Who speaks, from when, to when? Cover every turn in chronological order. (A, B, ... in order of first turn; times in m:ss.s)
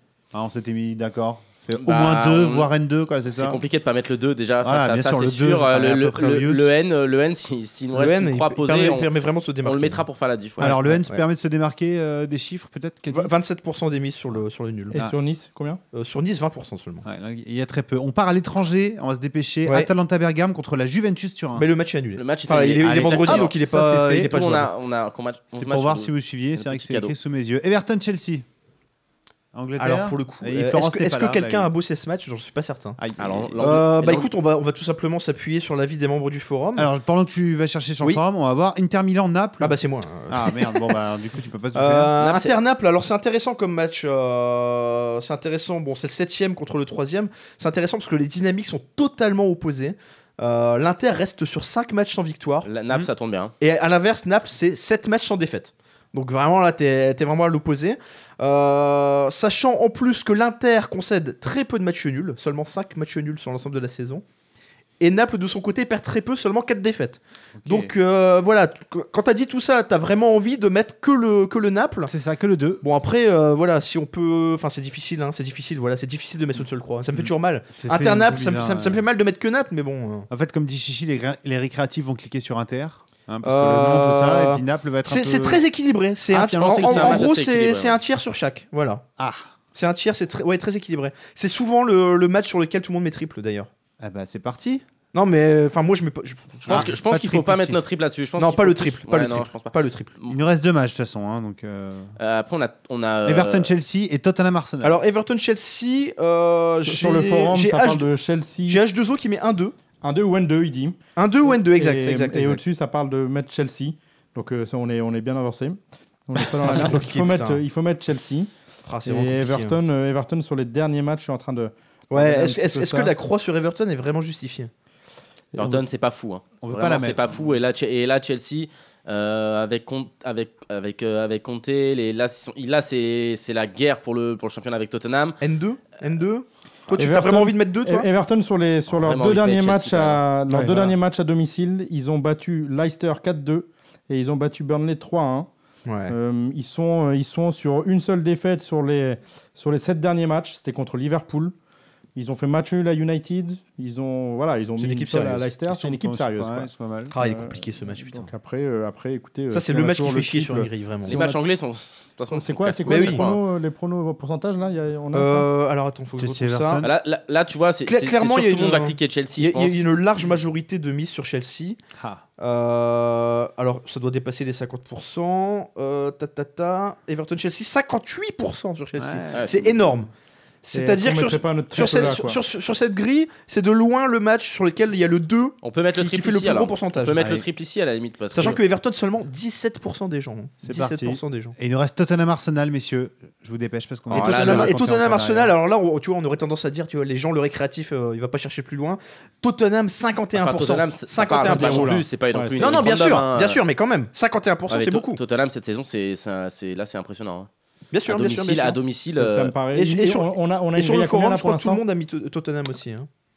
0:00.3-0:03.6 A
0:01.8-0:02.7 B
0:03.3-0:09.1 B
0:04.6-0:06.7 A
0:07.9-0:10.0 C
0:09.6-0:10.7 B
0:10.6-0:11.2 C
0:10.6-0:13.3 A
0:13.1-0:15.0 C
0:14.9-0:15.8 D
0:15.9-0:17.0 C
0:17.0-0:21.7 A
0:21.6-0:24.7 C
0:22.2-0:27.1 B
0:22.8-0:24.3 A
0:25.5-0:28.4 A
0:29.5-0:31.7 A
0:29.8-0:33.0 C
0:33.0-0:33.6 A
0:33.2-0:34.3 B
0:33.6-0:36.9 C
0:36.8-0:39.8 A
0:39.6-0:41.0 C
0:40.3-0:42.1 A
0:41.7-0:52.7 C
0:42.2-0:42.6 B
0:52.6-0:53.5 B
0:53.6-1:04.2 C
1:05.0-1:12.1 C
1:07.6-1:07.9 A
1:12.1-1:12.8 A
1:12.8-1:20.3 C
1:17.1-1:19.0 A
1:20.3-1:25.6 A
1:23.4-1:29.0 C
1:26.3-1:27.3 A
1:26.6-1:28.0 B
1:29.2-1:29.5 A
1:29.7-1:33.7 C
1:34.0-1:34.8 A
1:35.1-1:36.9 C
1:36.6-1:40.4 B
1:36.7-1:37.8 A
1:38.4-1:40.1 C
1:40.3-1:42.1 A
1:42.2-1:43.7 B
1:43.2-1:45.0 A
1:44.8-1:48.1 C
1:46.8-1:48.8 D
1:48.7-1:49.7 C
1:50.0-1:58.5 D
1:51.2-1:52.6 C
1:56.6-1:57.6 C
1:58.8-1:59.8 C
1:59.0-2:03.1 D
2:02.1-2:04.7 C
2:05.5-2:05.8 D
2:05.6-2:15.4 B
2:06.6-2:07.4 A
2:15.4-2:18.1 C
2:17.0-2:25.5 D
2:18.9-2:20.2 B
2:20.5-2:20.9 A
2:25.8-2:26.1 C
2:26.1-2:31.5 D
2:32.1-2:41.4 D
2:34.8-2:35.5 C
2:35.7-2:37.1 A
2:37.1-2:38.3 C
2:39.5-2:41.2 C
2:41.0-2:43.4 B
2:42.3-2:45.5 D
2:42.9-2:43.2 C
2:45.1-2:46.8 C
2:46.2-2:46.9 A
2:46.8-2:49.8 B
2:47.8-2:51.8 C
2:52.0-2:52.2 A
2:52.4-3:00.1 C
2:59.0-2:59.8 A
3:00.6-3:07.3 C
3:00.7-3:02.4 D
3:05.6-3:08.6 B
3:07.1-3:07.4 A
3:08.3-3:11.5 C
3:10.6-3:15.5 A
3:14.1-3:14.7 B
3:14.1-3:21.9 C
3:20.4-3:23.6 B
3:21.4-3:22.9 D
3:22.6-3:25.2 C
3:24.7-3:27.5 B
3:27.9-3:28.8 C
3:28.0-3:29.5 B
3:29.1-3:31.8 D
3:29.7-3:33.1 C